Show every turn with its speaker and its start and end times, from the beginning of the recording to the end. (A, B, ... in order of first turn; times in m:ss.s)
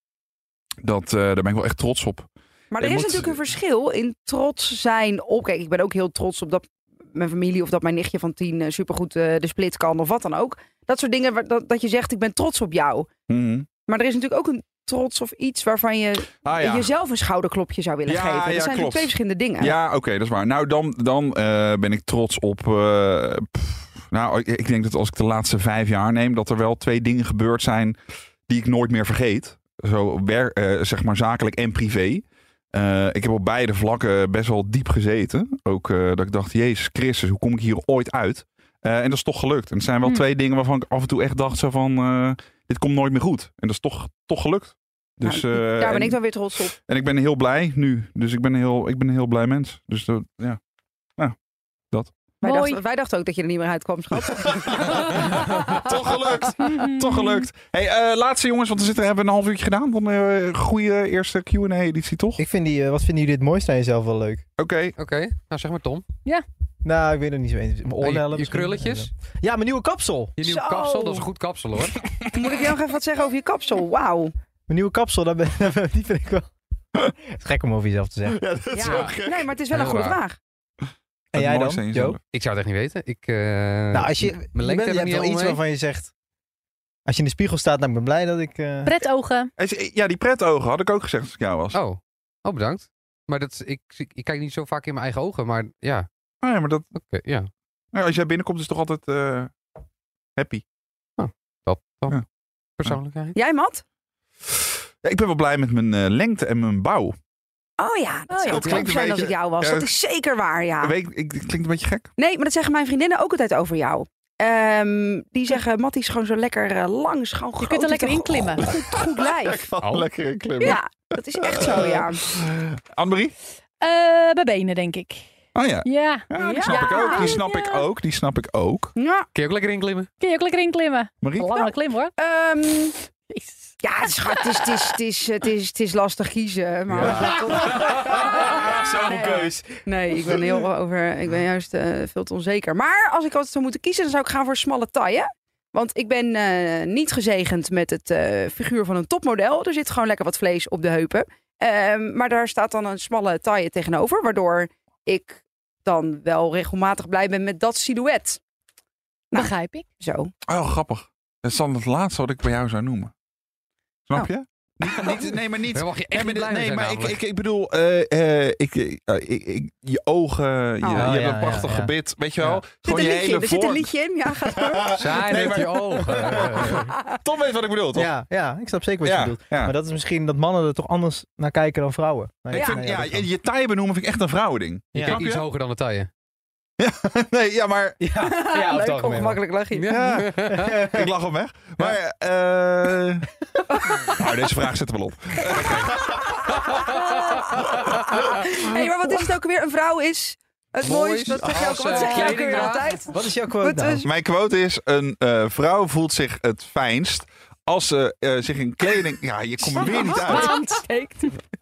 0:00.8-0:03.4 A
0:02.7-0:13.1 B
0:13.3-0:13.7 A
0:13.9-0:19.8 B
0:16.4-0:16.9 A
0:18.1-0:50.6 A
0:45.3-0:46.7 B
0:52.4-0:56.0 B
0:52.4-0:52.8 C
0:54.3-1:02.4 A
0:56.6-0:57.4 C
1:02.4-1:04.4 D
1:04.6-1:05.0 A
1:05.0-1:06.0 E
1:06.8-1:10.4 D
1:08.0-1:09.1 E
1:10.4-1:12.1 E
1:10.4-1:11.3 B
1:12.0-1:12.4 A
1:12.3-1:14.4 B
1:14.7-1:16.5 D
1:17.2-1:18.4 D
1:18.3-1:19.6 A
1:18.7-1:20.4 B
1:18.8-1:19.1 E
1:19.7-1:20.2 E
1:21.3-1:22.2 D
1:21.3-1:22.2 A
1:22.3-1:25.6 E
1:23.9-1:26.1 D
1:27.1-1:29.0 D
1:28.8-1:29.5 C
1:29.6-1:31.8 A
1:31.7-1:36.1 E
1:36.4-1:36.9 A
1:36.9-1:37.5 E
1:37.9-1:39.6 A
1:40.4-1:40.6 A
1:41.2-1:42.2 E
1:42.8-1:43.4 E
1:43.4-1:43.8 B
1:44.6-1:47.2 A
1:47.8-1:50.9 B
1:48.3-1:48.9 C
1:48.5-1:49.9 A
1:50.8-1:52.1 A
1:52.2-1:59.7 B
1:57.6-1:58.7 C
1:58.6-2:00.8 A
1:59.8-2:00.1 E
2:00.6-2:02.2 B
2:01.4-2:03.3 A
2:03.8-2:05.2 C
2:05.6-2:08.9 A
2:05.8-2:07.9 C
2:06.4-2:07.4 B
2:09.0-2:09.3 B
2:09.4-2:10.1 E
2:10.2-2:12.1 C
2:11.2-2:11.7 A
2:12.2-2:13.0 B
2:13.3-2:13.8 C
2:13.8-2:38.4 B
2:17.0-2:19.6 A
2:17.0-2:17.4 D
2:19.2-2:19.6 D
2:39.3-2:40.3 B
2:39.3-2:39.9 C
2:40.5-2:43.1 A
2:44.1-2:53.9 A
2:45.7-2:47.2 E
2:50.8-2:51.1 B
2:51.0-2:52.6 D
2:52.8-2:54.9 B
2:54.4-2:58.1 A
2:55.0-2:56.8 E
2:55.2-2:56.9 D
2:58.0-3:03.3 D
2:59.0-2:59.8 A
3:02.5-3:05.4 A
3:02.5-3:02.8 B
3:04.9-3:05.2 D
3:05.0-3:06.1 E
3:06.8-3:08.0 A
3:08.0-3:09.4 D
3:08.2-3:09.9 B
3:09.7-3:10.8 E
3:09.9-3:13.3 A
3:10.4-3:11.1 D
3:13.7-3:14.3 B
3:14.1-3:16.3 A
3:15.5-3:16.0 E
3:16.3-3:24.1 B
3:20.8-3:23.0 E
3:21.9-3:22.7 C
3:23.1-3:24.1 D
3:24.0-3:30.6 A
3:29.8-3:31.3 B
3:30.1-3:31.3 C